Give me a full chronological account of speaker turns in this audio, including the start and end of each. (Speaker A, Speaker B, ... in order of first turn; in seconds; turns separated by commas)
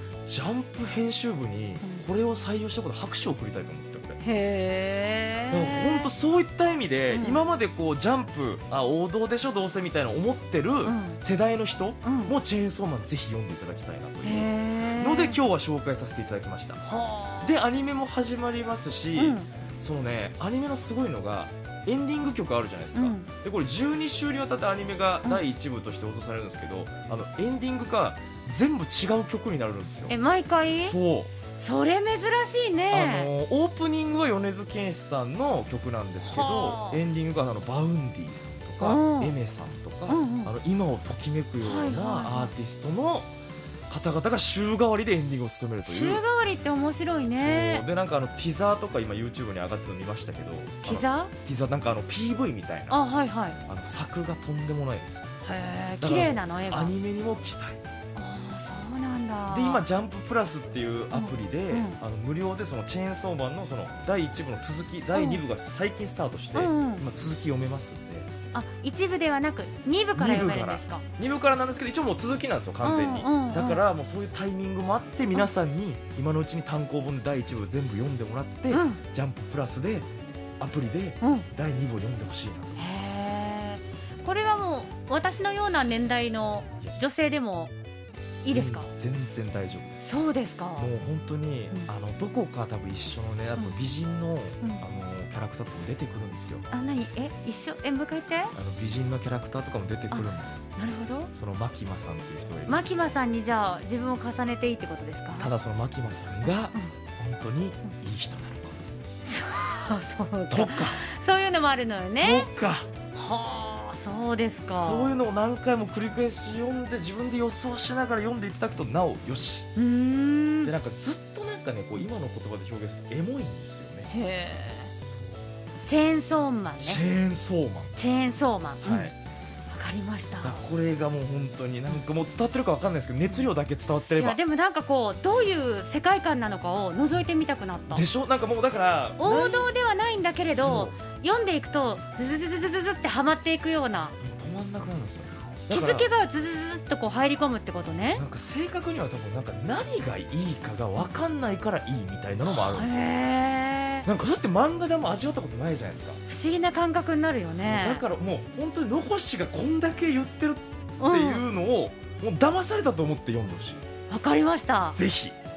Speaker A: 0.3-4.2, Speaker B: 4.2-6.1, Speaker A: 5.5-16.8, Speaker B: 7.1-7.4, Speaker B: 10.8-11.2, Speaker B: 12.0-12.3, Speaker B: 14.2-15.4, Speaker B: 16.8-17.6, Speaker A: 17.4-30.1, Speaker B: 19.1-19.5, Speaker B: 22.9-23.3, Speaker B: 30.1-31.0, Speaker A: 30.8-31.4, Speaker B: 31.6-33.3, Speaker A: 32.9-43.3, Speaker B: 36.2-37.0, Speaker B: 38.8-39.4, Speaker B: 40.1-40.5, Speaker B: 41.6-42.5, Speaker A: 43.9-46.2, Speaker B: 45.9-47.9, Speaker A: 47.4-53.0, Speaker B: 50.8-51.3, Speaker B: 52.9-53.6, Speaker A: 53.6-55.3, Speaker B: 55.4-56.9, Speaker A: 56.0-57.8, Speaker B: 58.2-59.8, Speaker A: 59.5-68.3, Speaker B: 61.1-62.0, Speaker B: 65.1-65.4, Speaker B: 66.5-67.0, Speaker B: 68.5-71.0, Speaker A: 70.2-80.1, Speaker B: 72.8-73.8, Speaker B: 78.7-79.0, Speaker A: 80.6-82.8, Speaker B: 81.2-81.5, Speaker B: 82.8-87.7, Speaker B: 88.4-88.9, Speaker A: 88.5-90.0, Speaker B: 90.0-90.9, Speaker A: 90.8-96.7, Speaker B: 94.6-94.9, Speaker B: 96.7-98.5, Speaker A: 98.5-100.6, Speaker B: 100.1-101.3, Speaker A: 101.3-103.0, Speaker B: 102.7-105.5, Speaker A: 105.4-108.8, Speaker B: 106.4-106.9, Speaker B: 109.2-112.5, Speaker A: 110.5-111.0, Speaker A: 112.2-112.9, Speaker B: 113.1-115.2, Speaker A: 114.8-119.7, Speaker B: 119.8-120.7, Speaker A: 120.7-124.1, Speaker B: 124.1-124.9, Speaker A: 125.0-125.4, Speaker B: 125.9-127.0, Speaker A: 126.8-128.0, Speaker B: 128.0-129.1, Speaker A: 128.8-129.1, Speaker B: 129.7-130.6, Speaker A: 130.4-134.4, Speaker B: 134.2-138.1, Speaker A: 137.9-139.7, Speaker B: 139.2-144.1, Speaker A: 140.5-140.9, Speaker A: 144.1-146.1, Speaker B: 145.7-148.2, Speaker A: 148.1-153.1, Speaker B: 152.4-154.1, Speaker A: 154.1-156.2, Speaker B: 156.3-158.0, Speaker A: 157.4-163.8, Speaker B: 161.0-161.4, Speaker B: 164.1-165.0, Speaker A: 164.9-165.3